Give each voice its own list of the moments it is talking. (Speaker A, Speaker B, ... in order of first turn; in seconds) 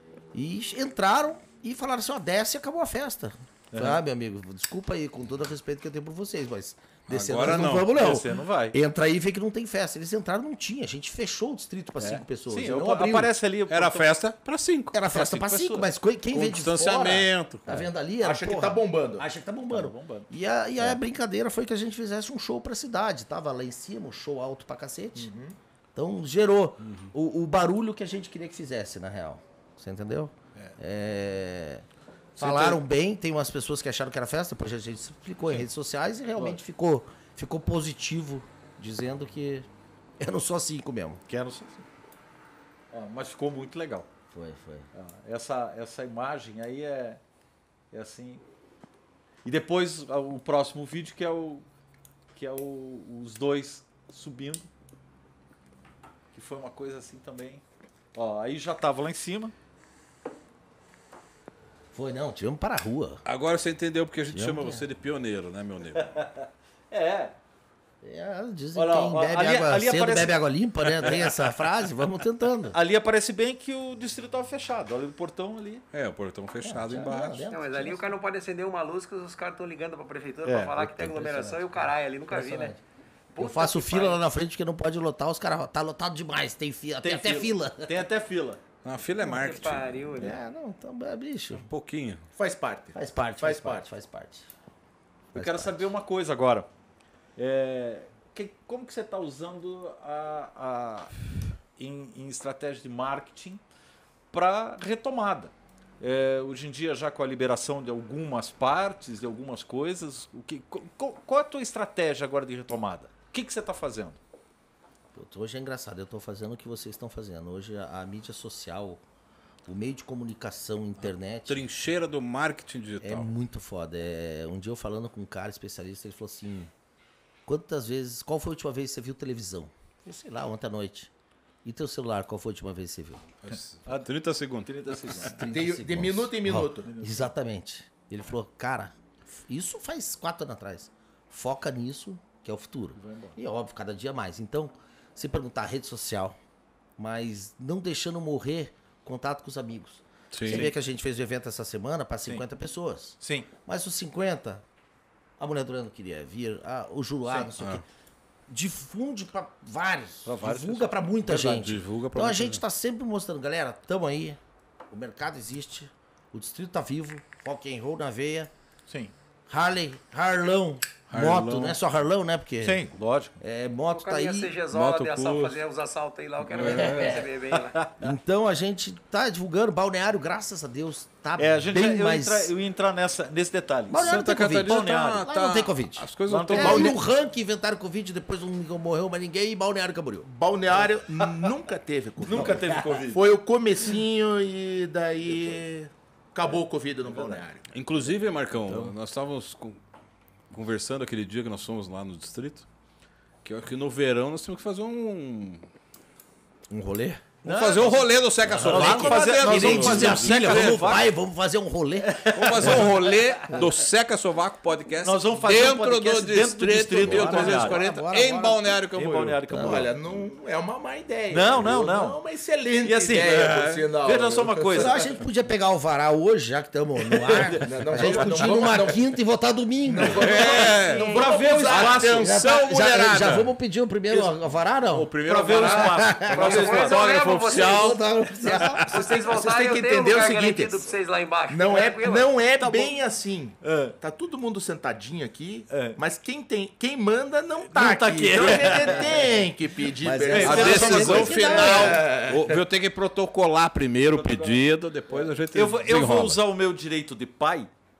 Speaker A: 0.3-13.3, 14.9-25.3, 25.9-31.8, 32.4-39.7, 40.2-41.2, 44.3-44.9, 61.9-63.2, 64.3-64.8, 68.0-72.8, 76.6-78.0, 81.0-81.6, 82.3-82.8, 83.4-88.0, 90.1-91.7, 92.9-94.5, 95.3-95.9, 115.1-119.0, 119.7-121.7, 123.0-126.7, 127.5-131.1, 131.6-133.2, 135.1-146.4, 147.0-154.6, 155.4-157.8, 158.5-164.4, 164.9-168.5, 169.5-174.5, 176.6-177.2, 178.0-182.5, 183.9-190.3, 192.3-193.0, 206.7-207.4, 208.4-212.9, 217.1-218.7, 219.5-219.8, 224.7-230.3, 232.2-235.1, 236.0-236.7, 237.5-238.8, 250.0-252.0
Speaker B: 3.7-4.0, 7.6-8.8, 12.0-14.2, 15.1-15.9, 19.7-20.3, 41.3-41.9, 42.9-44.1, 44.9-47.2, 47.9-48.4, 49.4-51.6, 52.4-54.7, 56.3-57.6, 58.1-59.5, 65.9-67.3, 68.7-71.5, 72.7-75.8, 80.4-81.4, 87.0-88.6, 95.3-96.7, 97.4-101.1, 101.8-103.6, 104.3-114.2, 133.5-135.4, 136.8-137.3, 142.9-143.4, 153.2-153.5, 160.2-161.4, 172.6-173.3, 177.5-177.9, 181.4-185.3, 186.3-187.0, 190.8-191.5, 192.2-193.3, 197.0-197.4, 198.6-198.9, 207.4-211.1, 212.1-213.1, 215.0-217.8, 218.9-219.9, 221.3-222.2, 222.8-225.0, 227.0-228.4, 230.3-232.3, 235.2-237.6, 242.6-242.9, 243.6-243.9, 245.7-246.0, 247.6-249.4, 250.3-251.4, 254.1-257.7
Speaker C: 7.1-7.9, 13.7-15.0, 16.3-17.8, 32.4-32.8, 63.2-66.2, 75.9-77.5, 88.8-90.1, 91.5-92.2, 121.5-123.3, 133.5-134.8, 150.3-150.7, 157.5-157.8, 161.3-162.6, 171.1-171.8, 174.7-175.6, 176.4-177.2, 183.9-186.9, 197.7-199.8, 200.5-202.7, 203.4-205.6, 207.4-211.1, 212.2-219.5, 230.1-233.5, 234.9-238.0, 238.6-239.1, 250.4-256.4
Speaker D: 18.2-19.2, 25.1-25.6, 92.3-93.8, 135.4-136.9, 186.6-186.9, 190.2-197.7, 219.5-225.1, 227.6-229.1, 229.9-232.8, 238.5-240.9, 241.5-252.6
Speaker E: 77.5-82.8, 83.3-84.2, 89.2-90.3, 173.9-177.8, 235.5-238.0, 238.9-242.3